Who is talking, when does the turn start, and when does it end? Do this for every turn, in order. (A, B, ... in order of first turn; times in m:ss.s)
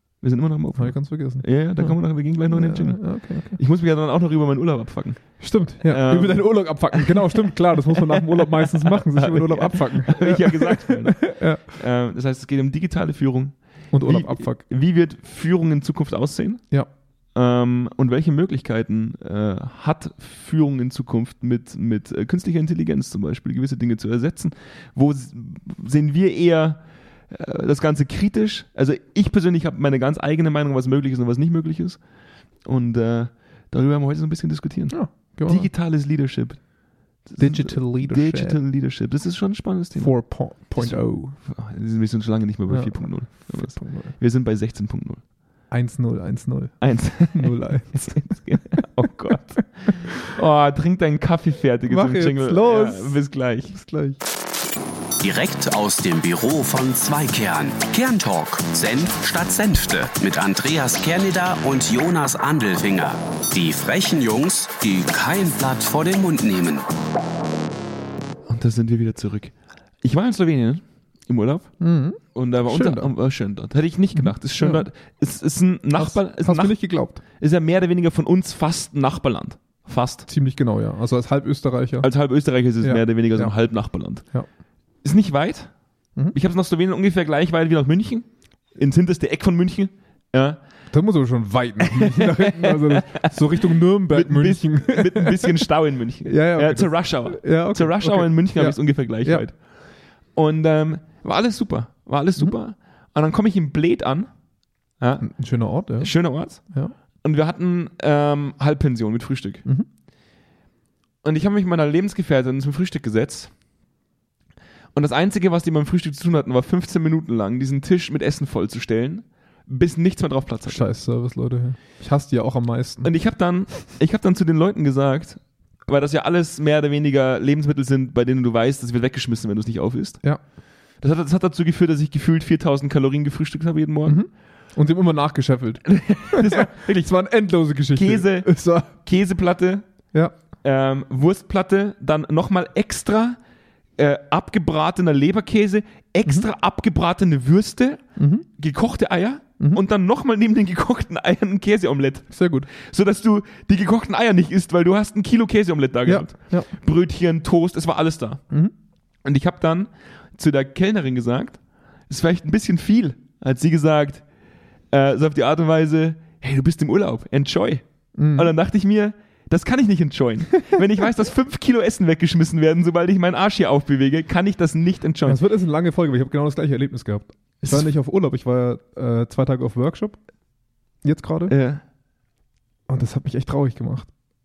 0:00.2-0:07.3 A
0:00.8-0:03.6 B
0:05.4-0:11.6 B
0:07.9-0:16.6 A
0:13.9-0:14.6 B
0:17.3-0:32.0 A
0:32.6-0:36.6 A
0:34.9-0:35.7 B
0:37.2-0:45.2 A
0:37.4-0:38.6 B
0:39.9-0:41.4 B
0:42.7-0:44.1 B
0:45.7-0:48.4 B
0:46.8-0:53.8 A
0:51.9-0:54.2 B
0:55.2-1:06.8 C
1:08.5-1:11.7 A
1:11.8-1:13.1 B
1:12.3-1:16.8 A
1:14.1-1:14.8 B
1:15.9-1:17.2 B
1:17.3-1:20.2 A
1:20.3-1:22.1 B
1:22.0-1:24.2 A
1:22.8-1:23.5 B
1:25.0-1:25.7 A
1:26.3-1:30.6 A
1:30.9-1:35.7 B
1:31.8-1:39.6 A
1:36.3-1:39.4 B
1:40.3-1:44.3 A
1:45.0-1:45.3 A
1:45.2-1:46.9 B
1:46.0-1:46.6 A
1:47.2-1:49.6 A
1:51.2-1:53.5 A
1:54.9-2:00.8 A
2:00.7-2:03.1 B
2:03.0-2:10.2 A
2:11.0-2:14.2 A
2:14.0-2:18.9 B
2:15.8-2:17.0 A
2:17.9-2:19.8 A
2:20.6-2:23.4 A
2:24.0-2:28.0 A
2:28.2-2:28.4 B
2:28.6-2:38.4 A
2:32.3-2:32.7 B
2:36.0-2:36.7 B
2:39.2-2:44.2 A
2:44.9-2:55.4 A
2:48.2-2:48.5 B
2:55.2-3:00.2 B
3:01.0-3:01.5 B
3:01.5-3:01.8 A
3:02.9-3:04.1 B